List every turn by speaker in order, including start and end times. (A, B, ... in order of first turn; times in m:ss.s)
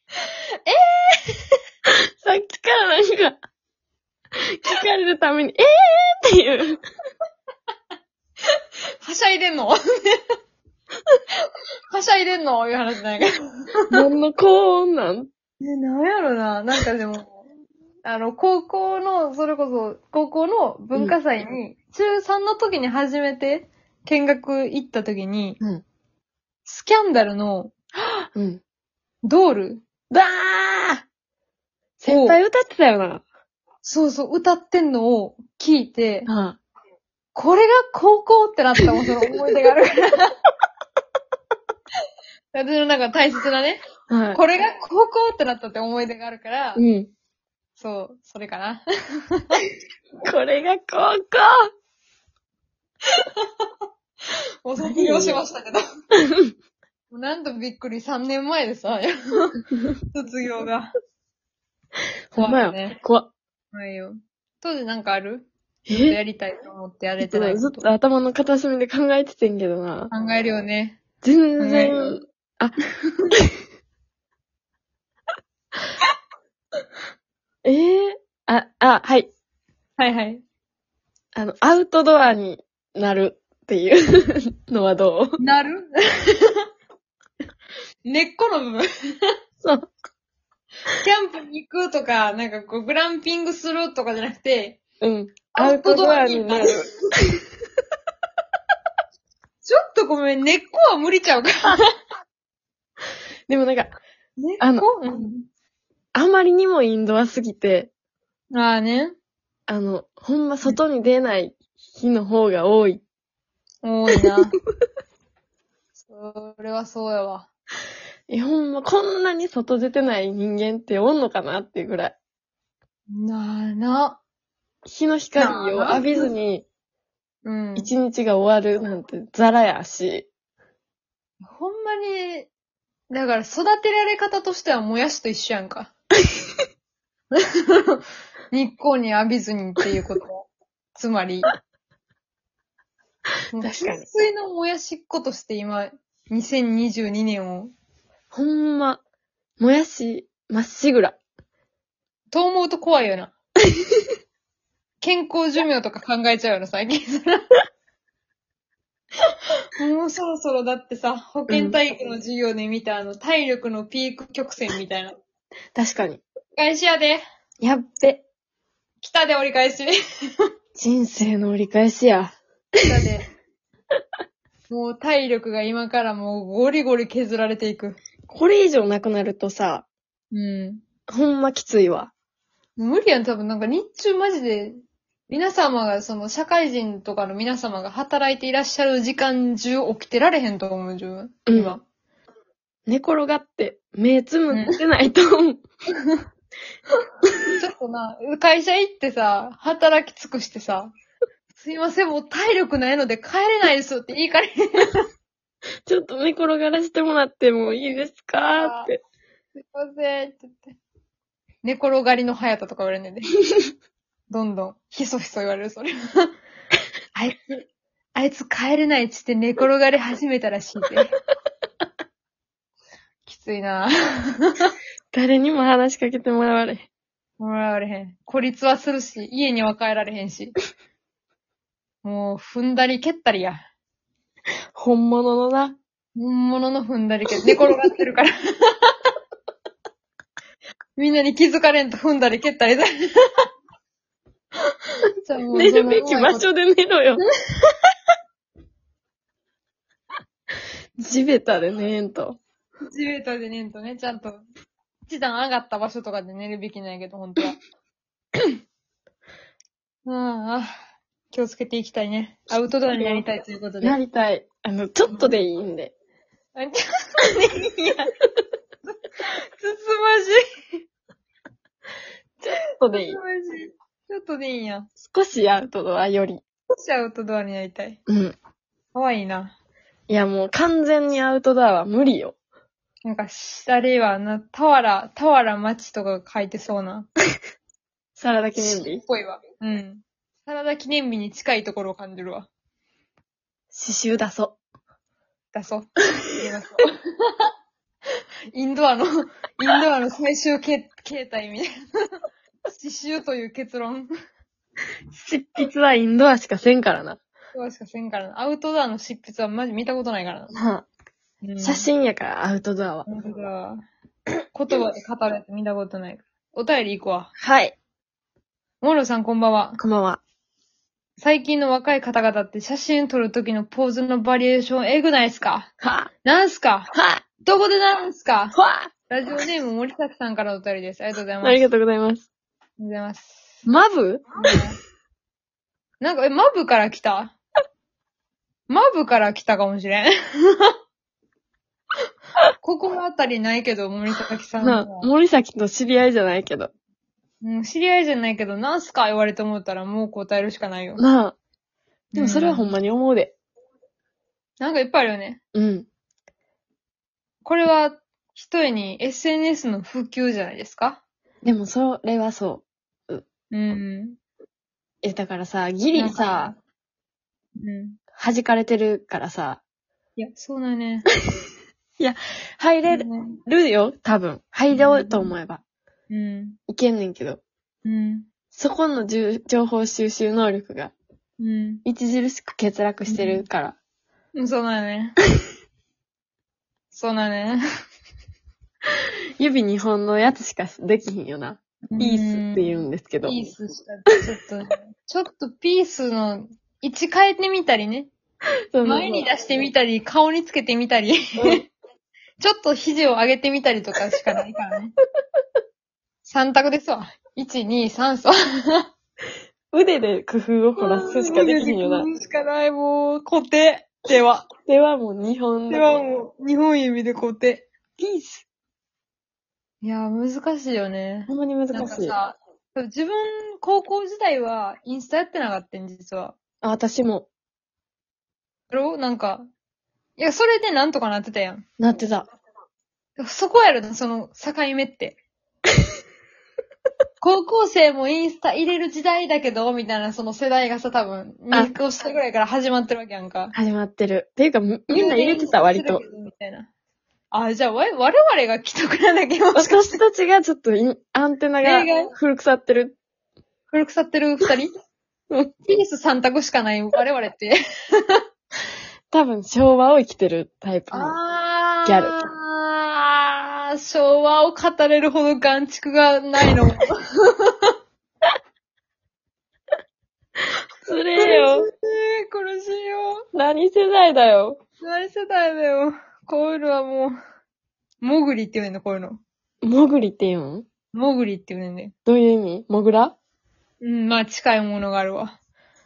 0:00.7-0:01.6 A
0:02.2-0:03.4 B
0:04.4-0:06.8 B
0:08.5-0:10.2 A
0:11.9-0:14.0 A
0:13.9-0:15.3 B
0:15.6-0:17.4 A
0:18.0-0:25.6 A
0:26.7-0:27.7 A
0:28.0-0:28.6 B
0:29.2-0:29.8 A
0:30.1-0:31.0 B
0:32.0-0:33.2 B
0:32.1-0:32.4 A
0:33.8-0:36.3 A
0:36.3-0:36.6 B
0:37.3-0:40.3 A
0:42.5-0:46.8 A
0:44.1-0:44.4 B
0:46.8-0:47.1 B
0:47.8-0:49.6 A
0:50.2-0:51.5 B
0:53.2-0:53.7 A
0:54.6-0:55.8 A
0:54.8-0:55.4 B
0:57.1-1:00.9 A
1:02.3-1:03.3 B
1:02.4-1:03.0 A
1:03.7-1:07.9 A
1:05.9-1:06.2 B
1:07.2-1:10.1 B
1:10.1-1:11.0 A
1:11.2-1:12.8 B
1:11.6-1:12.2 A
1:17.6-1:19.3 B
1:20.0-1:20.4 A
1:21.4-1:25.4 B
1:25.4-1:26.6 A
1:28.0-1:28.9 A
1:29.6-1:29.9 B
1:31.0-1:34.8 A
1:35.0-1:36.9 B
1:35.5-1:37.4 A
1:39.6-1:41.9 A
1:43.5-1:44.0 B
1:44.4-1:45.5 A
1:44.6-1:44.9 B
1:46.1-1:47.9 B
1:48.5-1:49.1 A
1:49.7-1:53.0 B
1:53.8-1:54.6 A
1:56.0-1:57.5 A
1:58.3-2:02.2 B
2:03.1-2:04.2 A
2:04.9-2:06.6 B
2:05.4-2:06.3 A
2:07.4-2:07.9 A
2:07.8-2:10.3 B
2:11.4-2:12.5 A
2:13.1-2:15.9 A
2:17.4-2:21.5 A
2:23.5-2:27.7 A
2:23.6-2:24.0 B
2:28.3-2:29.0 B
2:29.6-2:31.2 B
2:32.3-2:33.3 A
2:35.0-2:37.5 A
2:39.8-2:45.2 A
2:41.5-2:41.8 B
2:45.8-2:46.2 B
2:46.6-2:47.2 A
2:47.6-2:48.2 B
2:49.0-2:49.9 A
2:50.8-2:52.4 B
2:52.8-2:53.3 A
2:54.7-2:58.0 A
2:58.3-2:59.8 B
3:00.3-3:00.8 A
3:01.1-3:02.1 B
3:02.8-3:04.8 A
3:05.3-3:11.8 A
3:11.5-3:11.8 B
3:12.9-3:15.6 B
3:14.5-3:14.8 A
3:17.6-3:20.9 A
3:21.6-3:25.0 A
3:25.9-3:29.0 B
3:28.4-3:28.9 A
3:29.6-3:30.8 A
3:31.6-3:33.3 A
3:34.3-3:36.3 A
3:37.2-3:41.1 A
3:43.3-3:44.7 A
3:45.1-3:46.9 B
3:47.4-3:50.6 A
3:52.0-3:53.6 A
3:54.8-3:55.8 B
3:56.2-3:58.9 A
4:01.0-4:02.9 A
4:05.2-4:06.5 A
4:05.5-4:07.2 B
4:11.0-4:12.4 B
4:12.9-4:14.4 A
4:15.1-4:17.6 A
4:20.0-4:20.7 A
4:21.3-4:24.0 A
4:22.9-4:23.2 B
4:23.8-4:25.9 B
4:25.1-4:25.3 A
4:26.5-4:28.2 A
4:28.9-4:30.4 A
4:32.4-4:33.2 B
4:32.9-4:34.9 A
4:35.0-4:36.4 B
4:36.8-4:38.0 A
4:38.1-4:38.4 B
4:38.9-4:39.5 A
4:40.1-4:42.4 B
4:43.0-4:47.1 A
4:48.2-4:49.0 B
4:48.6-4:52.5 A
4:53.7-4:54.6 B
4:55.5-4:57.5 A
4:58.5-5:01.7 A
5:02.7-5:04.1 A
5:05.2-5:07.2 B
5:07.5-5:10.5 A
5:10.5-5:10.9 B
5:11.4-5:11.9 A
5:11.6-5:13.1 B
5:13.1-5:13.8 A
5:14.5-5:17.3 A
5:17.4-5:17.8 B
5:18.8-5:19.8 A
5:19.8-5:20.2 B
5:21.2-5:25.7 A
5:25.8-5:26.1 B
5:26.2-5:28.6 A
5:26.9-5:27.2 B
5:28.6-5:28.9 B
5:29.1-5:31.7 A
5:31.4-5:32.3 B
5:32.8-5:33.7 A
5:33.7-5:34.3 B
5:34.4-5:34.8 A
5:36.0-5:37.4 A
5:38.7-5:40.7 A
5:42.6-5:45.1 A
5:44.6-5:46.7 B
5:47.4-5:51.0 A
5:51.0-5:51.4 B
5:52.1-5:52.7 A
5:52.2-5:53.3 B
5:54.6-5:55.4 A
5:55.5-5:55.9 B
5:57.4-6:01.0 A
6:01.4-6:03.2 B
6:03.5-6:04.2 A
6:05.0-6:06.5 B
6:06.0-6:06.6 A
6:07.6-6:08.0 A
6:08.2-6:09.6 B
6:10.2-6:11.1 A
6:12.0-6:15.6 B
6:12.9-6:13.4 A
6:14.7-6:15.3 A
6:16.1-6:16.6 A
6:16.7-6:17.4 B
6:17.8-6:18.3 A
6:18.5-6:20.9 B
6:21.4-6:21.8 A
6:21.8-6:23.8 B
6:23.1-6:23.4 A
6:24.4-6:25.2 A
6:26.9-6:27.6 A
6:29.4-6:33.4 B
6:31.9-6:32.7 A
6:33.2-6:38.1 A
6:38.7-6:39.3 B
6:38.8-6:41.6 A
6:41.4-6:41.6 B
6:42.4-6:44.9 A
6:46.2-6:48.9 A
6:49.7-6:52.1 B
6:50.8-6:54.5 A
6:54.7-6:56.0 B
6:55.7-6:58.4 A
6:59.8-7:06.4 A
7:01.3-7:02.2 B
7:06.6-7:07.3 B
7:08.7-7:09.5 A
7:10.2-7:11.6 A
7:11.8-7:12.3 B
7:13.2-7:15.2 A
7:17.2-7:23.6 A
7:23.6-7:26.0 B
7:24.9-7:26.7 A
7:27.3-7:29.8 A
7:29.6-7:33.0 B
7:31.6-7:32.1 A
7:33.7-7:34.7 A
7:35.6-7:38.2 A
7:39.1-7:41.2 B
7:40.9-7:47.7 A
7:41.8-7:42.2 B
7:50.8-7:51.7 B
7:51.2-7:53.2 A
7:53.3-7:54.6 B
7:54.8-7:57.2 A
7:58.0-7:59.2 A
7:59.6-8:00.7 B
8:00.9-8:01.9 A
8:02.1-8:03.2 B
8:03.8-8:05.4 A